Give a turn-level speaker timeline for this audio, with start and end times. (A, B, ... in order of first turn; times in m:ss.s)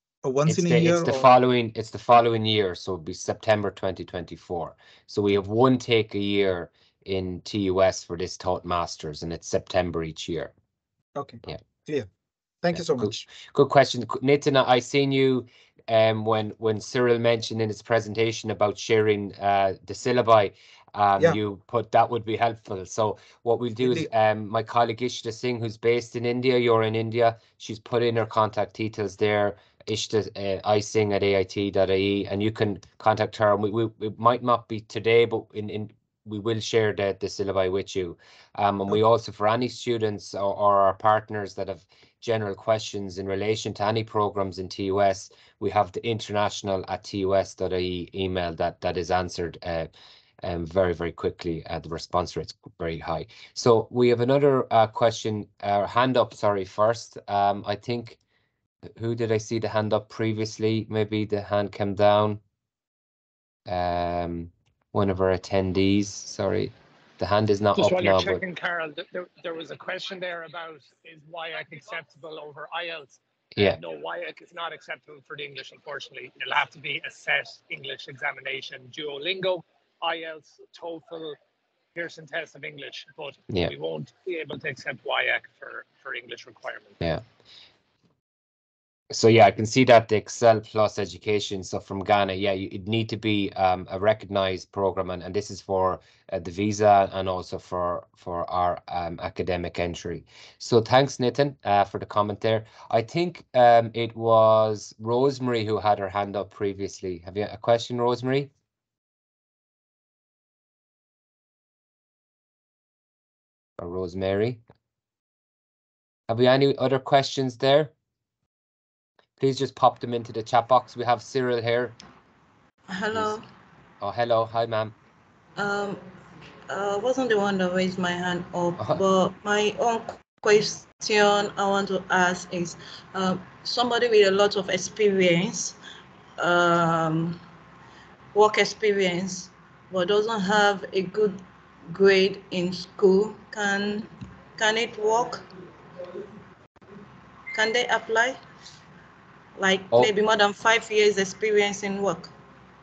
0:00.2-0:01.3 A
0:00.5-0:10.5 B
0:11.2-0:12.1 A
0:12.6-0:13.2 A
0:12.7-0:49.9 B
0:50.4-0:58.2 B
0:59.0-1:02.4 B
1:03.7-1:08.4 B
1:07.8-1:21.4 C
1:21.9-1:27.0 C
1:29.1-1:48.5 B
1:53.8-1:54.6 B
1:56.3-1:57.9 B
1:59.4-2:02.0 B
2:02.9-2:03.4 D
2:04.0-2:05.0 B
2:05.6-2:06.0 D
2:06.7-2:15.8 D
2:16.4-2:17.4 D
2:18.3-2:21.4 D
2:21.9-2:25.4 D
2:27.5-2:28.4 D
2:29.6-2:32.3 D